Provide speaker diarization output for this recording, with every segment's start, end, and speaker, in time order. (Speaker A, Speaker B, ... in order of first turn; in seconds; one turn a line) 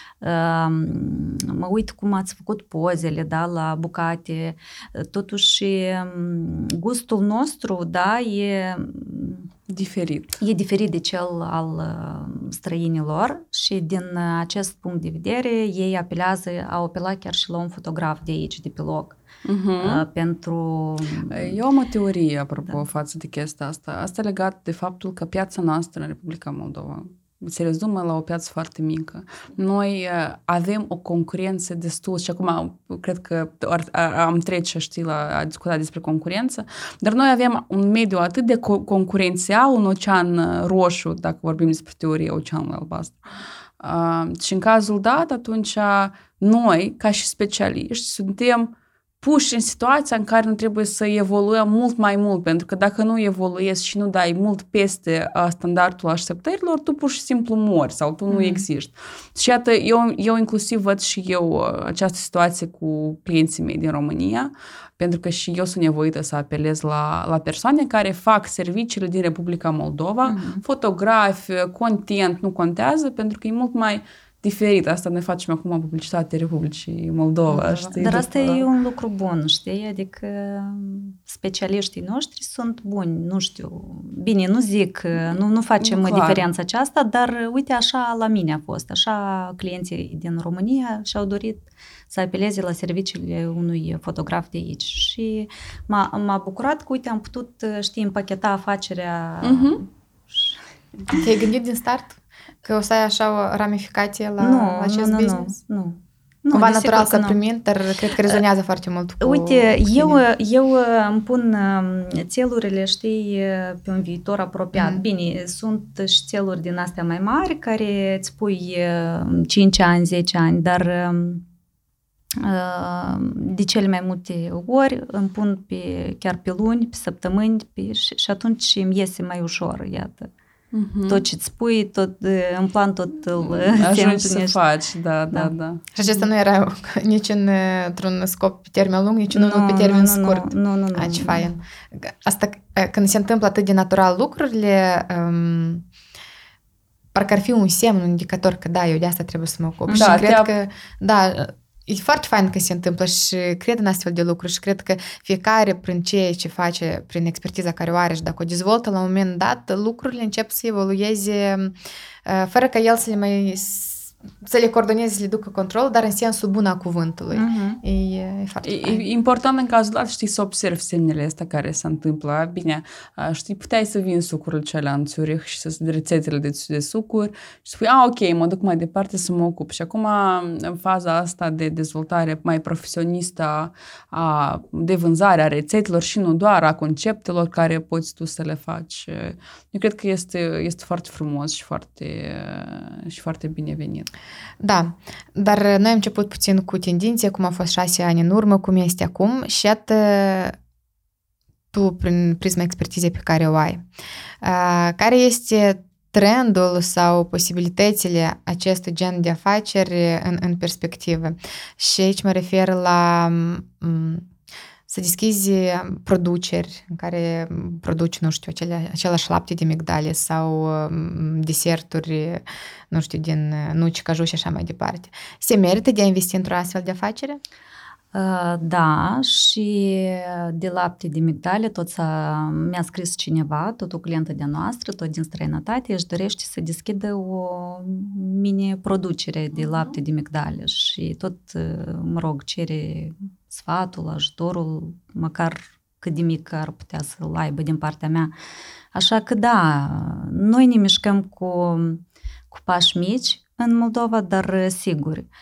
Speaker A: 0.2-9.5
Speaker B: 9.7-10.4
Speaker A: 10.4-19.2
Speaker B: 19.4-20.0
Speaker A: 19.8-21.6
Speaker B: 21.3-43.2
Speaker B: 43.8-78.7
Speaker A: 58.3-58.6
Speaker A: 70.2-70.6
Speaker C: 77.5-78.1
Speaker A: 78.0-100.6
Speaker B: 85.2-86.4
Speaker B: 99.4-99.8
Speaker C: 101.1-105.6
Speaker A: 104.4-107.4
Speaker C: 106.5-110.2
Speaker A: 109.2-121.4
Speaker C: 114.7-115.0
Speaker A: 122.4-130.3
Speaker B: 130.7-131.2
Speaker A: 131.1-134.6
Speaker B: 133.4-135.8
Speaker C: 135.9-145.9
Speaker A: 139.3-141.5
Speaker C: 147.1-161.7
Speaker A: 149.9-150.2
Speaker B: 149.9-150.5
Speaker C: 162.2-169.1
Speaker A: 167.3-167.8
Speaker B: 168.6-194.1
Speaker C: 194.6-200.6
Speaker C: 201.7-203.8
Speaker C: 204.4-214.3
Speaker C: 214.9-227.4
Speaker A: 228.1-248.3
Speaker B: 239.5-240.0
Speaker A: 248.9-255.3